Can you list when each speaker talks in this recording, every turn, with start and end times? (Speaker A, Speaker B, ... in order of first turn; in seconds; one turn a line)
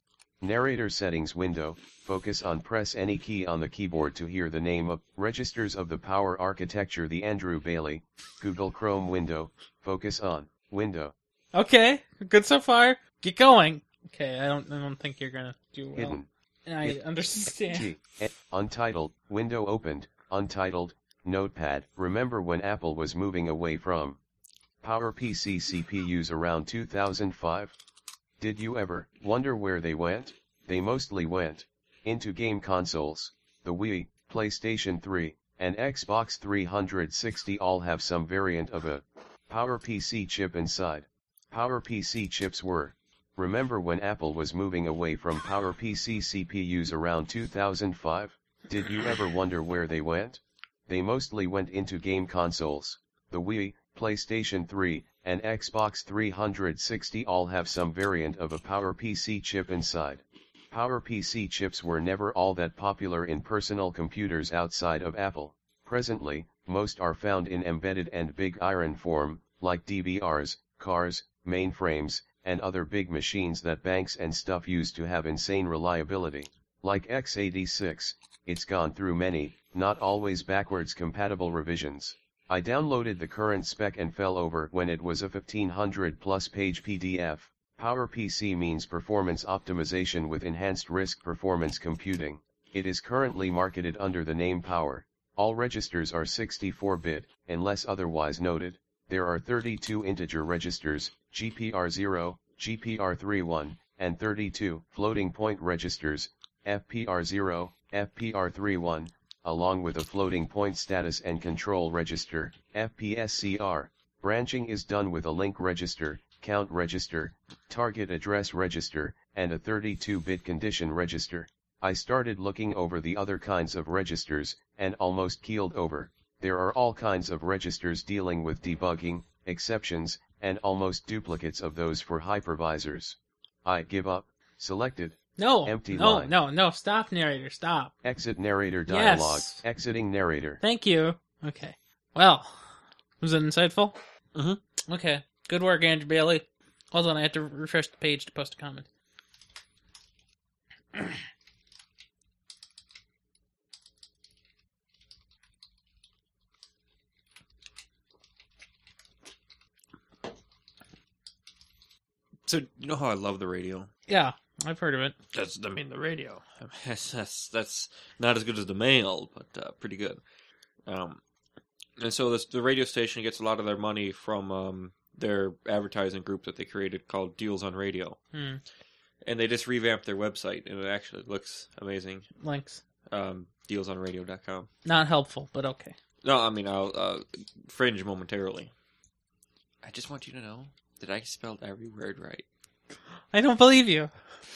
Speaker A: 0.4-11.1
Speaker B: 11.5-17.9
Speaker A: 15.9-16.3
Speaker A: 17.5-24.2
Speaker A: 24.8-27.7
Speaker A: 28.4-136.3
Speaker B: 135.4-137.9
Speaker A: 138.0-140.6
Speaker B: 138.9-139.6
Speaker B: 140.6-142.6
Speaker B: 143.2-143.9
Speaker C: 144.3-144.6
Speaker B: 144.9-148.8
Speaker C: 162.5-163.9
Speaker B: 164.1-165.1
Speaker C: 165.3-170.2
Speaker C: 170.8-171.2
Speaker C: 172.0-178.2
Speaker B: 178.3-178.6
Speaker C: 179.2-182.3
Speaker B: 182.4-182.8
Speaker C: 183.1-184.7
Speaker B: 184.8-185.9
Speaker C: 186.2-188.7
Speaker C: 189.8-192.4
Speaker B: 193.3-194.1